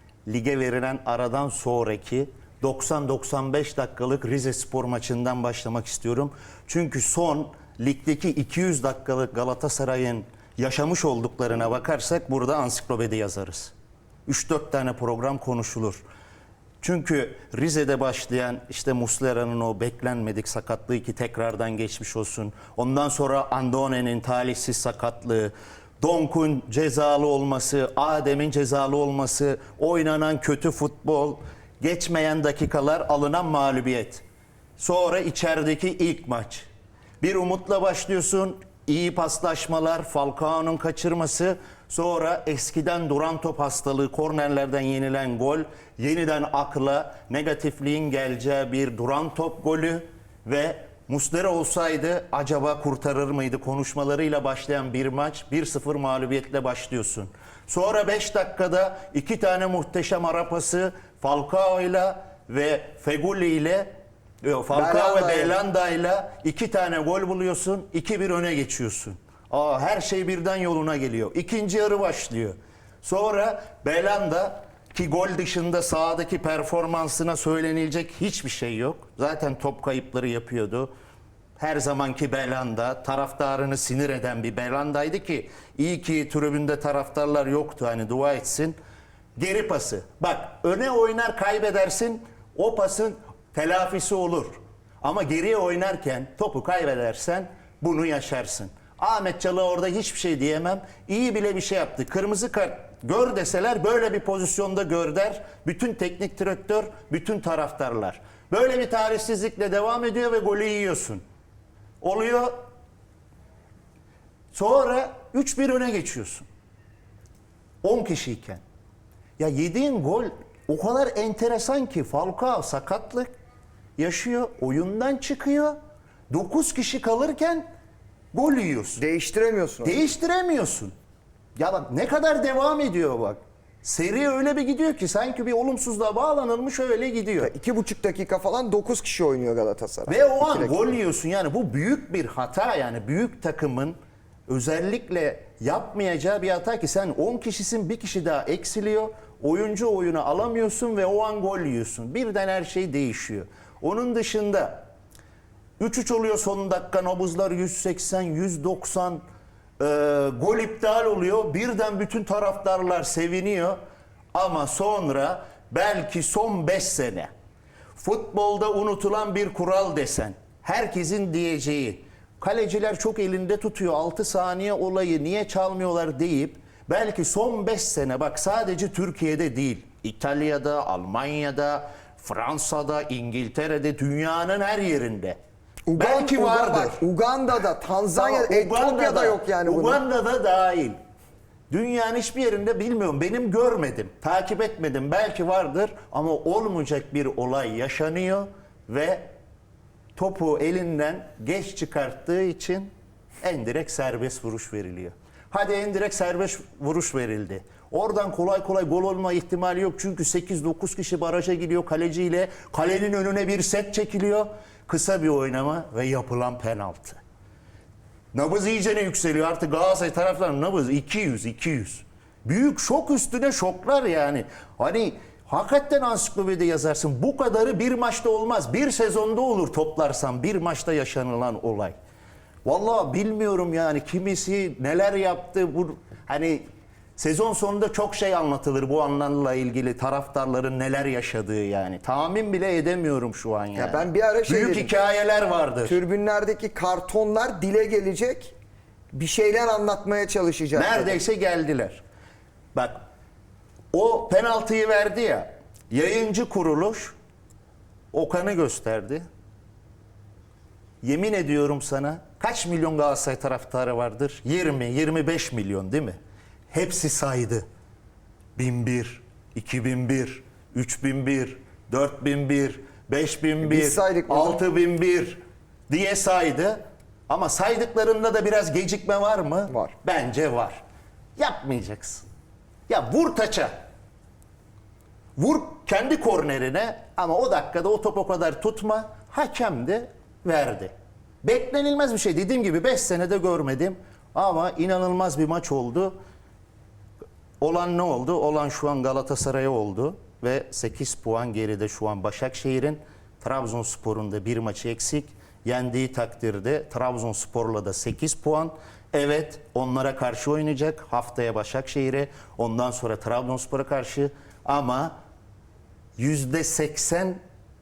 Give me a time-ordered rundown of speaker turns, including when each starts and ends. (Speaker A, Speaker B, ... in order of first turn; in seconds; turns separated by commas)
Speaker A: 0.3-13.7, Speaker A: 14.2-16.0, Speaker A: 16.8-34.2, Speaker A: 34.8-36.7, Speaker A: 37.2-63.9, Speaker A: 64.4-80.9, Speaker B: 64.7-65.6, Speaker A: 81.6-88.8, Speaker A: 89.4-111.2, Speaker A: 112.0-112.6, Speaker A: 114.5-116.5, Speaker A: 117.8-118.6, Speaker A: 119.4-123.3, Speaker A: 124.0-125.8, Speaker A: 126.3-127.7, Speaker A: 128.3-129.0, Speaker B: 129.0-130.0, Speaker A: 129.8-130.9, Speaker A: 131.6-137.5, Speaker B: 137.4-140.9, Speaker A: 140.1-144.0, Speaker A: 144.5-154.8, Speaker A: 155.8-159.2, Speaker A: 159.8-163.8, Speaker A: 164.3-167.3, Speaker A: 168.0-185.4, Speaker B: 185.8-190.0, Speaker A: 186.0-187.0, Speaker A: 188.2-190.9, Speaker A: 191.7-199.3, Speaker A: 200.2-202.9, Speaker A: 203.4-217.2, Speaker A: 218.3-232.0, Speaker A: 232.7-236.6, Speaker A: 237.2-246.0, Speaker B: 243.8-244.9, Speaker B: 245.8-248.6, Speaker B: 249.1-251.2, Speaker A: 250.8-252.0, Speaker A: 252.7-253.0, Speaker A: 253.9-257.1, Speaker A: 258.1-259.2, Speaker A: 261.0-266.2, Speaker A: 266.7-267.6, Speaker A: 268.6-280.8, Speaker B: 273.6-274.6, Speaker A: 281.4-282.2, Speaker A: 282.9-283.7, Speaker A: 285.4-290.9, Speaker A: 291.4-296.1, Speaker A: 297.6-315.1, Speaker A: 316.2-317.4